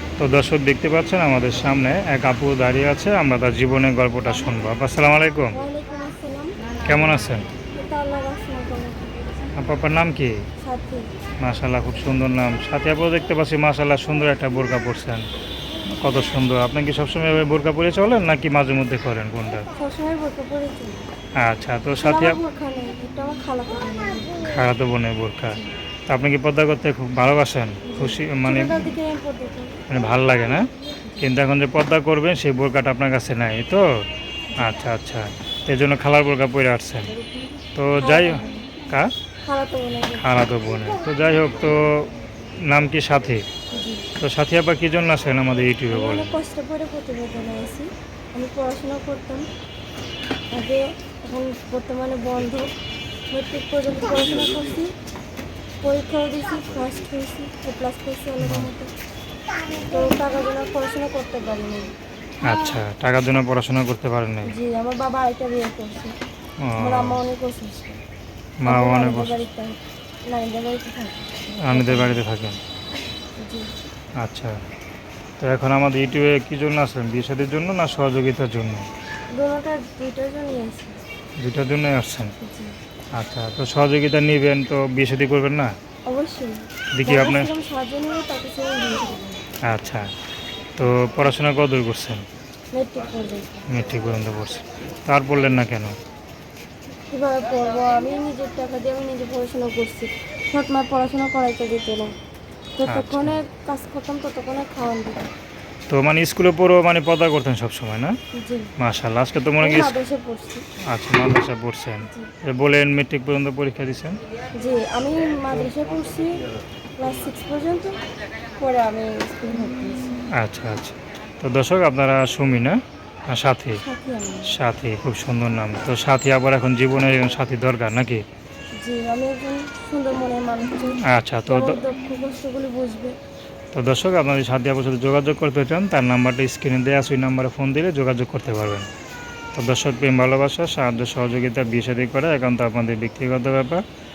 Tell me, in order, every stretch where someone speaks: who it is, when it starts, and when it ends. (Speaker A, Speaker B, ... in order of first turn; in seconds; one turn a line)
Speaker A: 0.2-5.5
Speaker B: 5.5-6.8
Speaker A: 6.8-7.5
Speaker B: 7.7-9.2
Speaker A: 9.6-10.3
Speaker B: 10.6-11.1
Speaker A: 11.4-15.3
Speaker A: 15.9-19.7
Speaker B: 19.7-21.1
Speaker A: 21.4-22.4
Speaker B: 22.0-24.6
Speaker A: 24.5-28.9
Speaker B: 27.9-29.8
Speaker A: 29.9-30.7
Speaker A: 31.2-33.8
Speaker A: 34.6-37.1
Speaker A: 37.7-39.1
Speaker B: 38.0-38.7
Speaker B: 39.5-40.3
Speaker A: 40.2-42.0
Speaker A: 42.7-43.4
Speaker B: 43.7-44.0
Speaker A: 44.2-46.3
Speaker B: 45.9-49.5
Speaker B: 50.5-52.7
Speaker B: 53.3-54.9
Speaker B: 55.8-58.9
Speaker A: 58.4-58.7
Speaker B: 59.9-61.9
Speaker A: 62.4-64.5
Speaker B: 64.5-66.1
Speaker A: 66.6-67.2
Speaker B: 66.8-68.0
Speaker A: 68.6-69.4
Speaker B: 68.7-72.1
Speaker A: 71.6-72.6
Speaker B: 73.4-73.7
Speaker A: 74.2-74.6
Speaker A: 75.4-78.9
Speaker B: 79.3-81.0
Speaker A: 81.4-82.3
Speaker B: 82.4-82.8
Speaker A: 83.2-85.7
Speaker B: 86.1-89.5
Speaker A: 87.0-87.5
Speaker A: 89.7-90.1
Speaker A: 90.8-92.2
Speaker B: 92.7-93.7
Speaker A: 93.7-95.9
Speaker B: 97.1-102.1
Speaker B: 102.8-105.3
Speaker A: 102.9-103.4
Speaker A: 105.9-108.1
Speaker B: 108.4-108.7
Speaker A: 108.8-110.0
Speaker B: 109.6-110.7
Speaker A: 110.8-114.2
Speaker B: 112.0-112.3
Speaker B: 114.5-118.0
Speaker B: 118.6-120.2
Speaker A: 120.3-123.8
Speaker B: 123.8-124.5
Speaker A: 124.5-128.2
Speaker B: 128.8-133.2
Speaker A: 131.0-131.8
Speaker A: 133.7-138.9
Speaker A: 139.6-143.8